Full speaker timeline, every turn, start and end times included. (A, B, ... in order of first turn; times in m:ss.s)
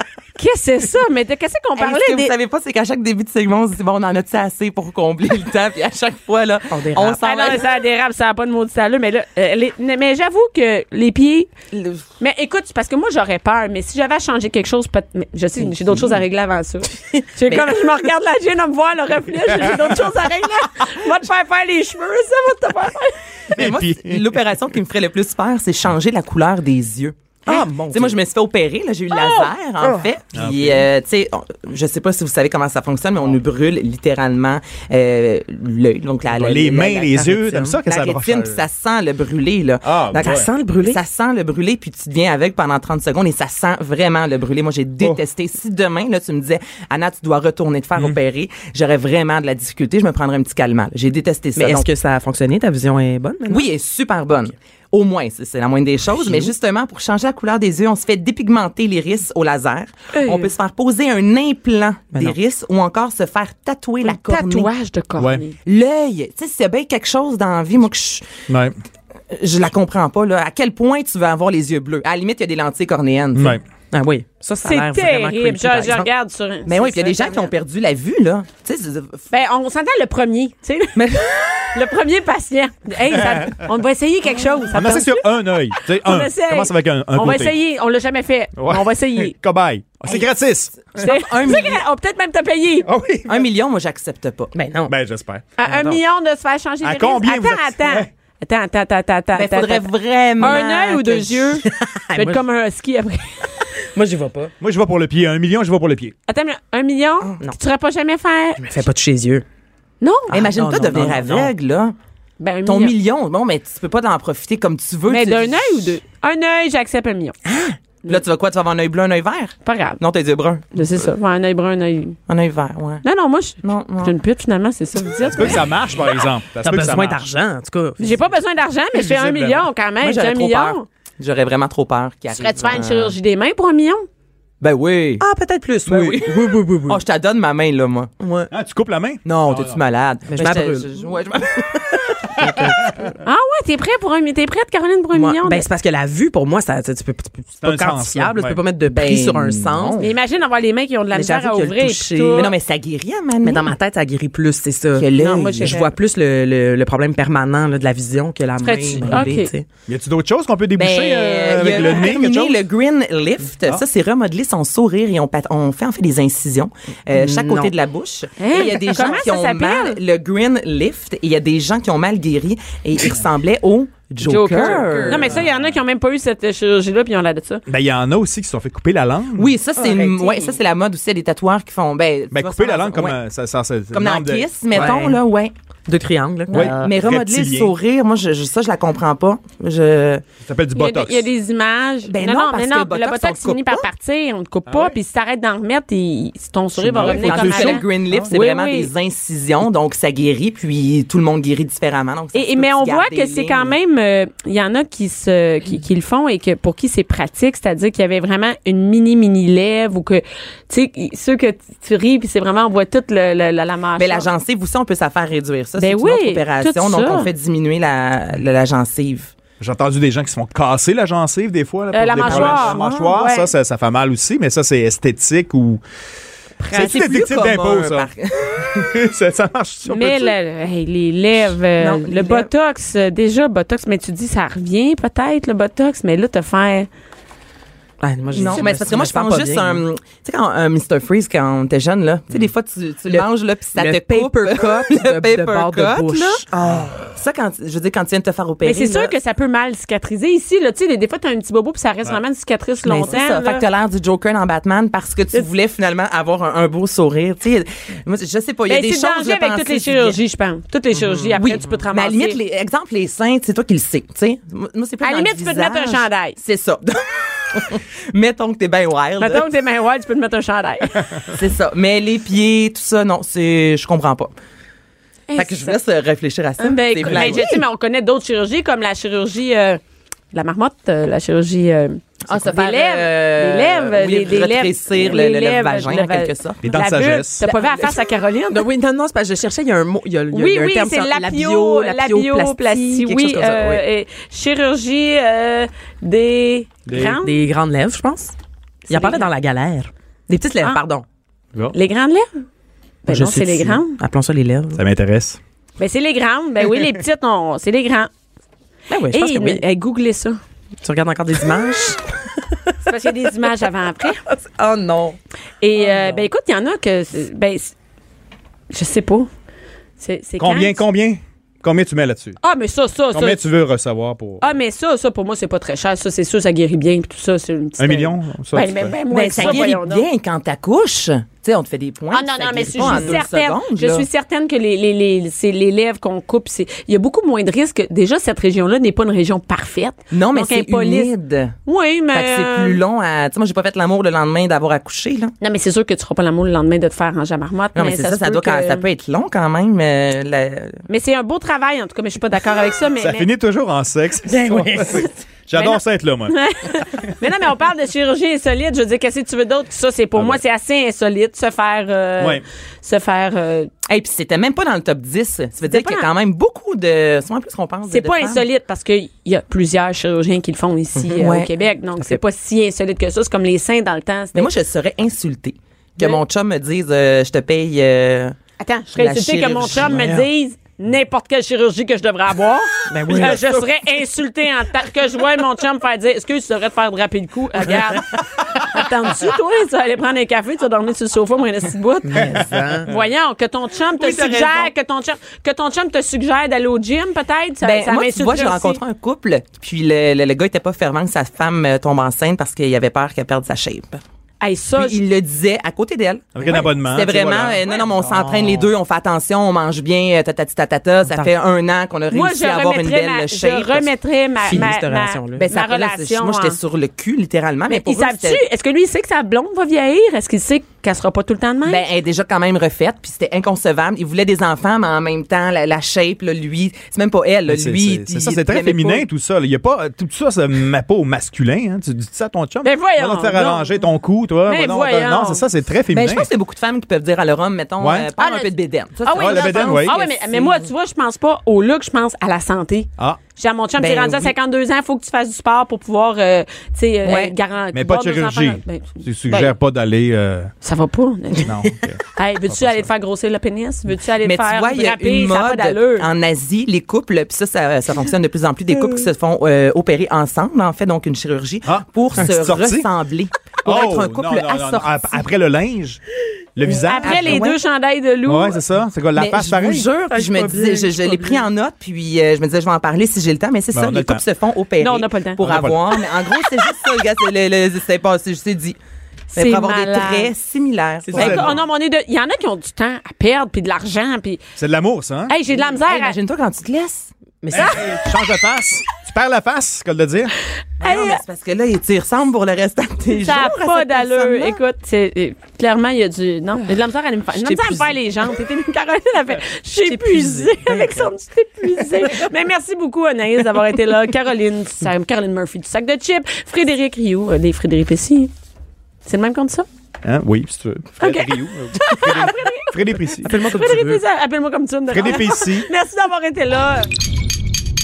0:00.4-0:02.3 A
0:01.8-0:07.6 B
0:06.7-0:07.2 C
0:07.2-0:11.5 A
0:11.7-0:12.0 B
0:12.2-0:23.1 A
0:15.6-0:16.1 C
0:17.1-0:17.7 C
0:23.5-0:24.4 D
0:23.5-0:27.2 B
0:27.4-0:28.2 C
0:27.9-0:51.9 B
0:29.1-0:29.5 A
0:30.3-0:30.9 D
0:36.3-0:38.6 D
0:37.2-0:37.7 C
0:39.8-0:40.5 D
0:40.2-0:41.0 C
0:51.6-0:53.7 C
0:53.5-1:04.7 B
0:56.2-0:56.5 C
1:00.1-1:00.5 A
1:04.0-1:05.6 A
1:05.2-1:05.4 D
1:05.6-1:08.2 B
1:08.5-1:08.8 D
1:09.3-1:13.6 B
1:13.4-1:13.6 D
1:13.9-1:16.1 C
1:14.6-1:17.5 A
1:16.7-1:19.2 B
1:19.3-1:21.1 A
1:21.0-1:21.7 B
1:21.7-1:29.4 A
1:23.1-1:23.6 D
1:24.7-1:27.6 D
1:28.6-1:30.8 D
1:30.8-1:31.8 B
1:31.0-1:32.9 A
1:32.8-1:33.5 D
1:33.3-1:34.5 B
1:34.6-1:34.9 C
1:34.9-1:35.9 D
1:35.6-1:39.9 A
1:36.8-1:38.1 D
1:39.4-1:41.4 B
1:40.4-1:43.7 A
1:41.6-1:42.4 C
1:43.8-1:44.5 C
1:44.6-1:46.1 D
1:46.3-1:48.6 A
1:48.6-1:49.4 C
1:50.0-1:50.3 A
1:50.3-1:51.5 C
1:50.3-1:52.0 B
1:52.4-1:52.9 A
1:52.7-1:56.0 B
1:55.1-1:57.4 A
1:57.4-1:57.8 C
1:58.1-2:00.8 B
1:59.6-2:00.0 A
2:00.7-2:02.2 A
2:02.3-2:03.0 B
2:03.0-2:05.7 A
2:03.6-2:04.2 B
2:05.3-2:07.2 D
2:06.6-2:08.3 C
2:08.0-2:10.9 A
2:08.9-2:09.7 D
2:10.0-2:10.8 C
2:11.2-2:13.2 B
2:12.3-2:14.0 A
2:14.6-2:15.2 B
2:15.2-2:17.0 C
2:15.9-2:18.1 B
2:18.2-2:18.5 C
2:18.5-2:19.8 D
2:19.2-2:22.0 B
2:20.3-2:21.1 C
2:21.7-2:23.1 C
2:22.5-2:23.1 D
2:23.2-2:25.7 A
2:25.1-2:30.0 C
2:27.6-2:28.6 D
2:28.8-2:30.1 B
2:30.0-2:32.5 A
2:31.1-2:32.5 C
2:32.4-2:33.8 B
2:33.4-2:39.7 C
2:35.0-2:35.8 B
2:35.2-2:35.9 A
2:38.6-2:39.5 A
2:39.9-2:42.6 D
2:40.8-2:55.4 B
2:47.1-2:47.7 C
2:48.4-2:50.0 A
2:54.2-2:57.6 A
2:54.3-2:55.4 C
2:55.4-2:55.7 D
2:57.7-2:59.5 D
2:59.4-3:03.2 B
2:59.8-3:00.6 C
3:02.3-3:04.9 D
3:03.9-3:05.5 B
3:04.7-3:05.2 C
3:05.9-3:06.8 C
3:06.5-3:10.2 B
3:06.5-3:07.7 D
3:10.4-3:11.3 D
3:10.7-3:18.9 A
3:12.1-3:13.9 B
3:14.7-3:15.0 D
3:16.8-3:23.7 B
3:16.8-3:18.3 D
3:22.3-3:34.3 A
3:34.0-3:39.3 B
3:35.8-3:37.3 A
3:39.6-3:45.8 D
3:41.9-3:43.5 A
3:42.2-3:43.1 B
3:46.7-3:48.7 B
3:46.7-3:50.4 D
3:49.9-3:56.9 A
3:51.8-3:52.5 B
3:58.0-3:59.8 C
3:58.3-4:06.4 B
4:03.1-4:07.0 C
4:07.1-4:09.1 B
4:08.6-4:13.6 A
4:12.8-4:20.2 B
4:18.7-4:22.4 A
4:21.0-4:21.4 C
4:21.4-4:29.5 B
4:25.0-4:26.4 A
4:29.2-4:31.1 A
4:31.3-4:34.3 B
4:35.3-4:35.8 A
4:35.4-4:37.6 B
4:36.6-4:39.8 A
4:37.0-4:37.5 D
4:40.3-4:48.7 A
4:42.3-4:46.6 B
4:46.6-4:47.4 D
4:47.4-4:53.8 C
4:50.3-4:57.4 A
4:56.9-4:57.2 D
4:57.2-4:58.4 C
4:58.9-4:59.3 A
4:58.9-5:01.0 C
5:01.7-5:02.4 A
5:03.0-5:04.0 A
5:03.1-5:04.8 C
5:04.7-5:05.4 D
5:05.8-5:08.1 A
5:08.9-5:09.6 C
5:09.1-5:10.4 A
5:10.8-5:13.4 C
5:12.8-5:14.2 A
5:14.2-5:15.2 C
5:15.6-5:17.7 A
5:15.8-5:16.3 C
5:18.7-5:19.3 A
5:20.0-5:20.8 A
5:20.4-5:22.4 D
5:22.4-5:23.4 A
5:23.1-5:24.5 D
5:24.4-5:30.0 A
5:27.8-5:29.7 D
5:29.1-5:34.1 B
5:32.1-5:41.1 A
5:32.8-5:33.2 D
5:40.1-5:41.6 B
5:41.7-5:42.8 A
5:42.1-5:45.3 B
5:45.4-5:48.8 A
5:47.7-5:50.8 B
5:50.9-5:53.3 A
5:53.0-5:57.1 D
5:54.3-5:55.1 C
5:55.5-6:03.7 A
6:00.2-6:00.4 D
6:02.2-6:02.4 D
6:03.9-6:08.4 B
6:05.6-6:06.1 A
6:07.9-6:14.5 A
6:11.0-6:11.5 B
6:14.4-6:18.4 B
6:18.6-6:38.8 A
6:19.0-6:20.1 B
6:19.8-6:20.1 C
6:22.9-6:23.7 C
6:27.7-6:28.1 C
6:32.0-6:32.9 C
6:34.0-6:34.7 B
6:37.6-6:44.0 B
6:44.4-6:45.0 A
6:44.8-6:53.9 B
6:46.4-6:47.6 D
6:47.7-6:48.7 C
6:52.1-6:56.6 A
6:54.4-6:55.4 C
6:55.4-6:58.4 B
6:57.7-7:01.8 A
7:01.7-7:09.0 B
7:07.5-7:16.3 D
7:12.6-7:13.8 A
7:14.5-7:15.4 A
7:15.9-7:20.7 B
7:17.8-7:18.1 D
7:18.2-7:29.6 A
7:19.1-7:20.0 D
7:23.8-7:24.3 B
7:27.0-7:27.4 B
7:27.7-7:30.5 D
7:30.6-7:31.6 A
7:31.4-7:32.9 D
7:32.2-7:36.1 A
7:34.2-7:45.3 B
7:41.7-7:42.9 D
7:43.6-7:46.0 D
7:46.6-7:47.5 D
7:46.7-7:48.6 A
7:47.0-7:47.6 B
7:48.3-7:49.9 D
7:49.1-7:58.8 B
7:50.1-7:51.4 C
7:53.7-7:54.2 D
7:54.8-7:55.4 A
7:55.4-7:55.8 D
7:59.3-8:01.6 B
7:59.4-8:00.3 A
8:01.0-8:01.5 C
8:01.1-8:01.6 D
8:01.1-8:04.4 A
8:04.6-8:05.3 D
8:05.3-8:06.2 A
8:05.6-8:07.1 B
8:07.4-8:07.9 C
8:07.5-8:10.3 D
8:10.8-8:11.2 A
8:10.8-8:14.6 B
8:13.1-8:28.3 A
8:17.4-8:18.0 C
8:19.8-8:21.1 C
8:22.0-8:22.3 C
8:29.0-8:29.7 A
8:30.0-8:33.4 D
8:31.0-8:36.9 A
8:33.2-8:34.0 C
8:34.9-8:35.7 D